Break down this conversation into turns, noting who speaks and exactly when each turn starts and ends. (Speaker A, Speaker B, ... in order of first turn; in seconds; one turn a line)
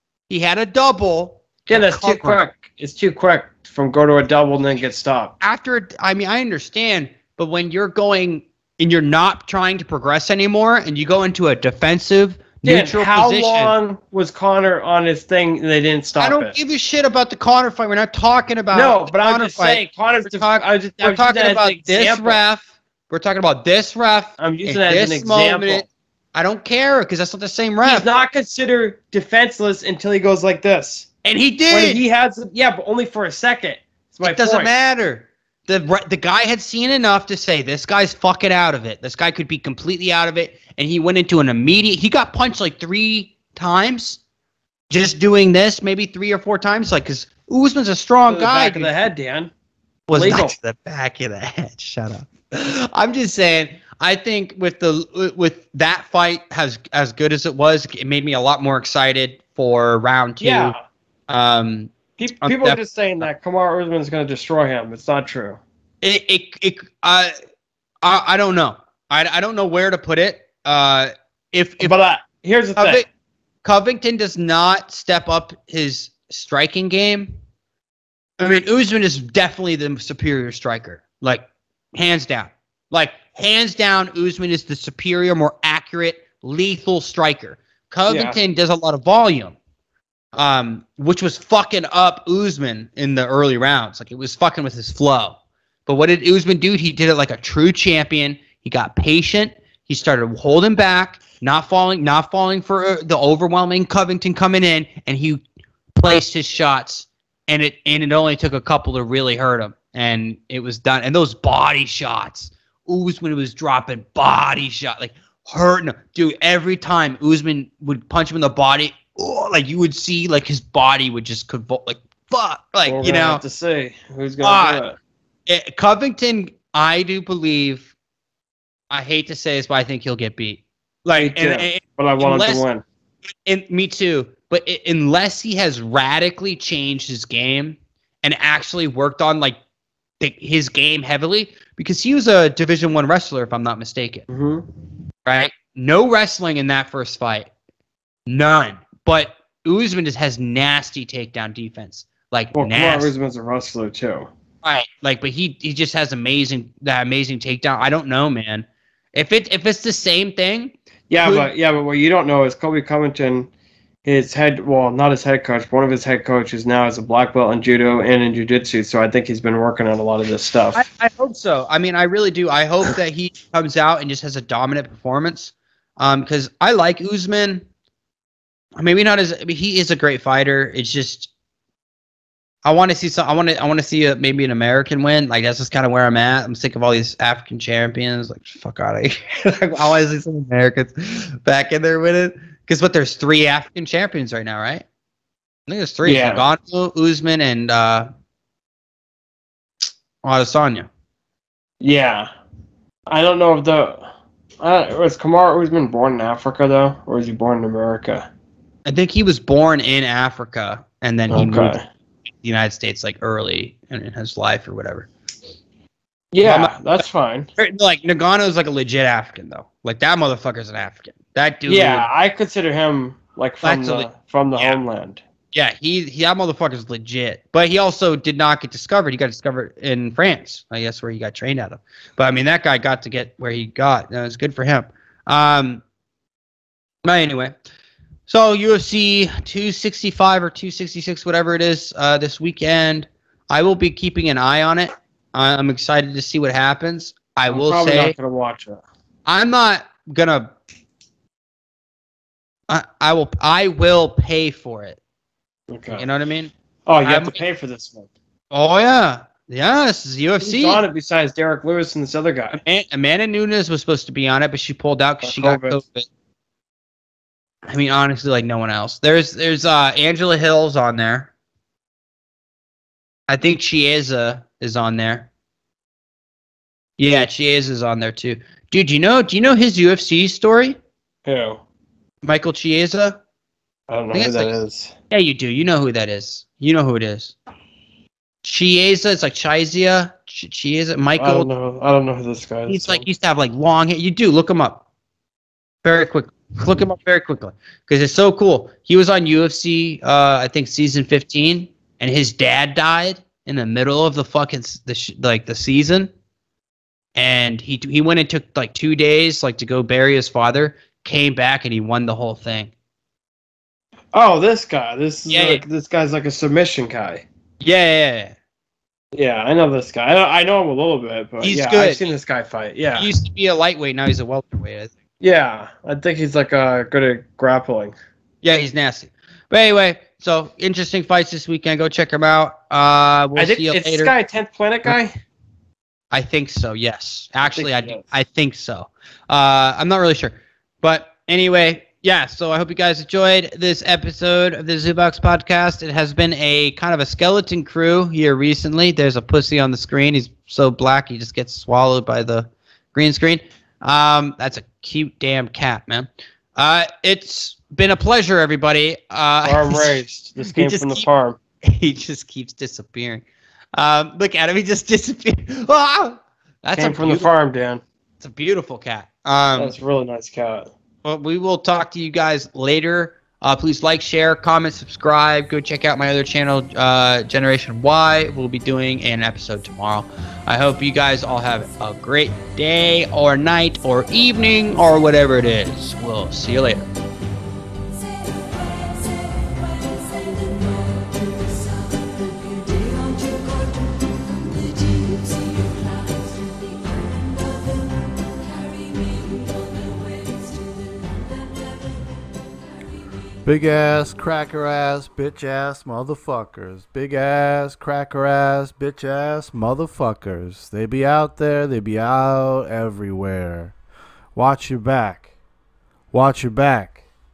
Speaker A: 0.3-2.5
Speaker B: 1.7-5.4
Speaker A: 5.4-13.7
Speaker B: 12.6-16.6
Speaker A: 16.2-28.1
Speaker B: 18.7-22.4
Speaker B: 24.4-25.9
Speaker B: 27.8-31.1
Speaker A: 31.2-32.0
Speaker B: 31.7-34.7
Speaker A: 34.2-44.2
Speaker A: 44.9-48.9
Speaker B: 48.3-49.5
Speaker A: 50.1-60.7
Speaker B: 50.1-50.5
Speaker B: 60.4-60.8
Speaker A: 61.3-62.8
Speaker B: 62.2-65.6
Speaker A: 66.0-67.3
Speaker A: 68.0-71.9
Speaker B: 71.8-73.0
Speaker A: 72.8-73.1
Speaker A: 73.6-77.3
Speaker A: 78.4-89.5
Speaker B: 88.1-88.4
Speaker A: 90.3-105.4
Speaker A: 106.0-123.4
Speaker B: 122.8-125.0
Speaker A: 124.4-124.8
Speaker A: 125.5-127.9
Speaker A: 128.9-132.6
Speaker B: 131.2-132.8
Speaker A: 133.4-139.6
Speaker A: 140.2-144.3
Speaker B: 144.3-144.7
Speaker A: 145.2-147.5
Speaker A: 148.3-153.1
Speaker B: 152.6-154.3
Speaker A: 154.6-161.5
Speaker B: 161.1-163.5
Speaker B: 164.1-170.8
Speaker A: 170.7-177.6
Speaker A: 178.7-181.3
Speaker A: 182.6-194.8
Speaker A: 195.7-198.1
Speaker B: 196.0-196.4
Speaker A: 200.2-200.9
Speaker B: 201.8-202.3
Speaker B: 203.1-204.1
Speaker B: 204.6-208.3
Speaker A: 208.8-211.8
Speaker B: 211.3-211.8
Speaker A: 212.4-215.1
Speaker B: 216.3-217.5
Speaker A: 216.4-217.0
Speaker A: 217.6-222.1
Speaker B: 221.7-225.2
Speaker A: 223.6-224.8
Speaker A: 225.5-235.8
Speaker A: 237.0-237.6
Speaker A: 238.3-248.1
Speaker B: 247.5-248.8
Speaker A: 249.3-250.5
Speaker A: 252.7-255.0
Speaker B: 255.7-256.1
Speaker A: 255.9-256.5
Speaker B: 256.9-258.1
Speaker A: 257.0-257.4
Speaker A: 258.5-260.8
Speaker B: 260.4-262.6
Speaker A: 262.5-266.1
Speaker B: 265.2-265.8
Speaker A: 267.7-271.3
Speaker A: 273.3-275.3
Speaker A: 277.0-280.8
Speaker B: 281.2-281.6
Speaker A: 282.2-283.2
Speaker B: 283.9-284.9
Speaker A: 284.1-284.6
Speaker A: 285.1-287.4
Speaker A: 288.4-291.5
Speaker B: 291.2-293.1
Speaker A: 292.7-294.8
Speaker A: 295.8-306.1
Speaker A: 307.1-312.7
Speaker B: 314.1-317.2
Speaker A: 315.3-315.6
Speaker A: 317.6-318.4
Speaker B: 319.1-323.1
Speaker A: 321.4-322.1
Speaker A: 322.9-324.9
Speaker B: 325.2-327.9
Speaker A: 328.4-334.1
Speaker B: 333.4-335.1
Speaker A: 336.1-361.1
Speaker B: 337.4-338.1
Speaker B: 359.4-361.4
Speaker A: 361.6-367.3
Speaker B: 366.8-367.8
Speaker A: 368.2-369.7
Speaker B: 369.6-370.7
Speaker A: 371.0-386.9
Speaker C: 403.4-413.8
Speaker C: 414.3-415.3
Speaker C: 416.1-417.0